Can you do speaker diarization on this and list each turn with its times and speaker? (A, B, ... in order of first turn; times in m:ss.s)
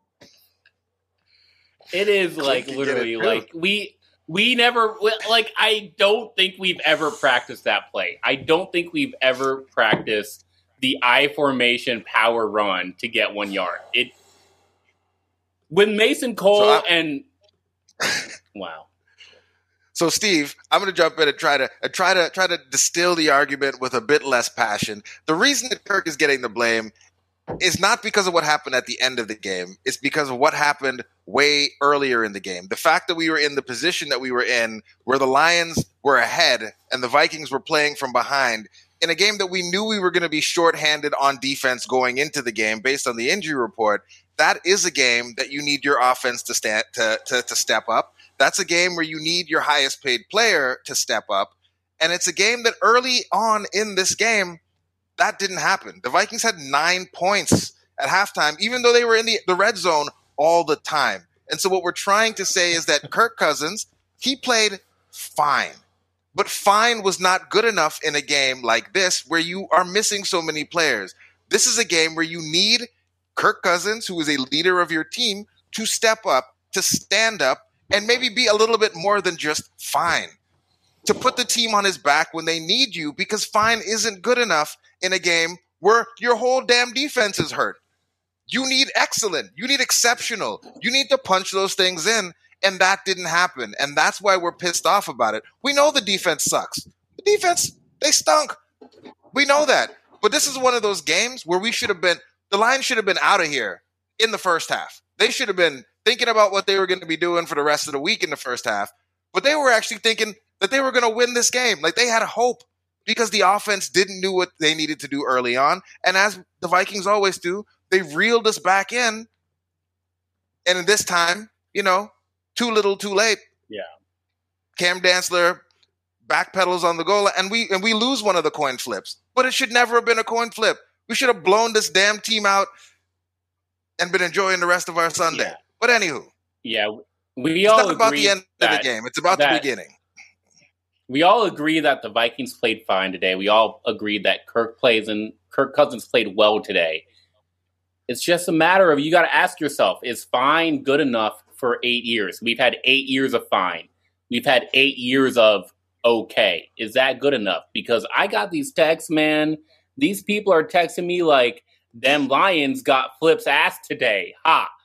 0:01.9-0:14.1 A
0:02.4-0:03.4 B
0:15.7-0:17.2 A
0:16.5-0:16.8 B
0:18.5-0:18.9 A
0:19.9-0:26.9 B
0:27.6-0:54.6 B
0:55.2-1:05.8 B
1:06.3-1:20.4 B
1:21.0-1:27.8 B
1:28.5-1:38.6 B
1:39.3-1:59.3 B
2:00.6-2:03.4 B
2:04.8-2:05.6 B
2:06.3-2:12.7 B
2:14.0-2:16.3 B
2:15.3-2:15.6 A
2:16.6-2:19.6 A
2:17.6-2:19.9 B
2:21.1-2:27.0 A
2:28.1-2:44.7 A